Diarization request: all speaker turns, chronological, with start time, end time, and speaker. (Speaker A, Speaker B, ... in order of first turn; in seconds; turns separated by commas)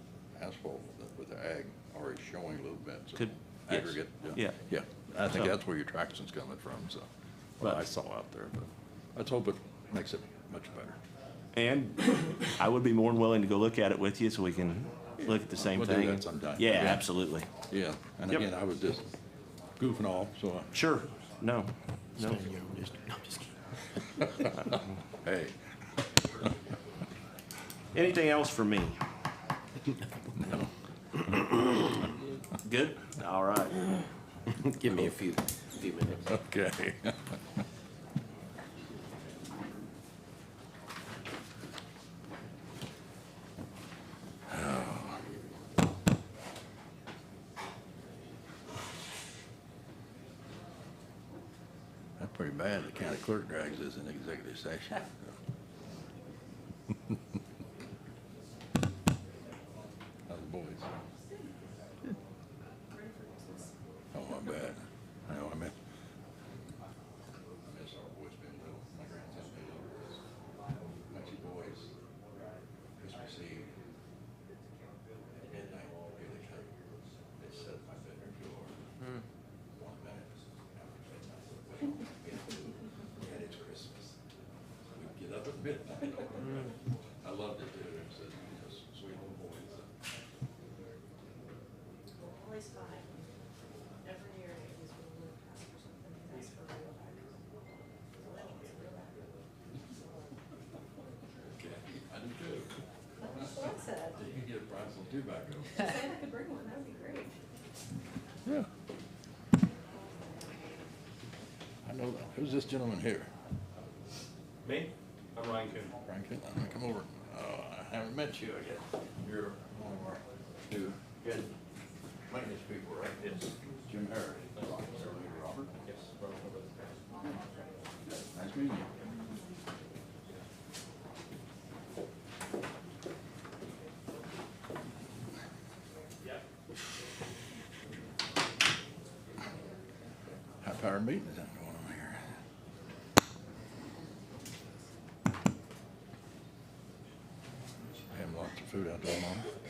Speaker A: 0.3-7.1, Speaker B: 3.1-4.6, Speaker B: 5.3-5.5, Speaker A: 7.6-11.0, Speaker B: 11.5-17.5, Speaker A: 15.6-17.1, Speaker A: 17.7-19.1, Speaker A: 19.8-20.7, Speaker B: 20.7-22.4, Speaker C: 22.2-23.5, Speaker A: 24.6-25.6, Speaker B: 27.9-29.0, Speaker A: 30.4-30.7, Speaker B: 32.6-33.9, Speaker C: 34.5-36.3, Speaker A: 36.3-37.4, Speaker A: 44.5-45.3, Speaker A: 52.2-55.3, Speaker A: 60.3-60.9, Speaker D: 62.9-63.7, Speaker A: 64.1-65.7, Speaker A: 67.7-70.2, Speaker A: 71.1-71.9, Speaker A: 73.0-73.7, Speaker A: 75.4-76.7, Speaker A: 77.4-78.8, Speaker A: 79.7-84.2, Speaker A: 84.9-89.9, Speaker D: 92.2-93.3, Speaker D: 94.0-97.3, Speaker D: 98.2-99.3, Speaker A: 101.5-102.7, Speaker D: 103.2-104.2, Speaker A: 103.3-105.9, Speaker D: 105.8-107.3, Speaker A: 111.8-113.3, Speaker E: 114.6-115.9, Speaker A: 116.0-121.5, Speaker A: 122.3-125.7, Speaker E: 125.9-126.8, Speaker A: 128.3-128.9, Speaker A: 140.6-142.2, Speaker A: 148.1-149.5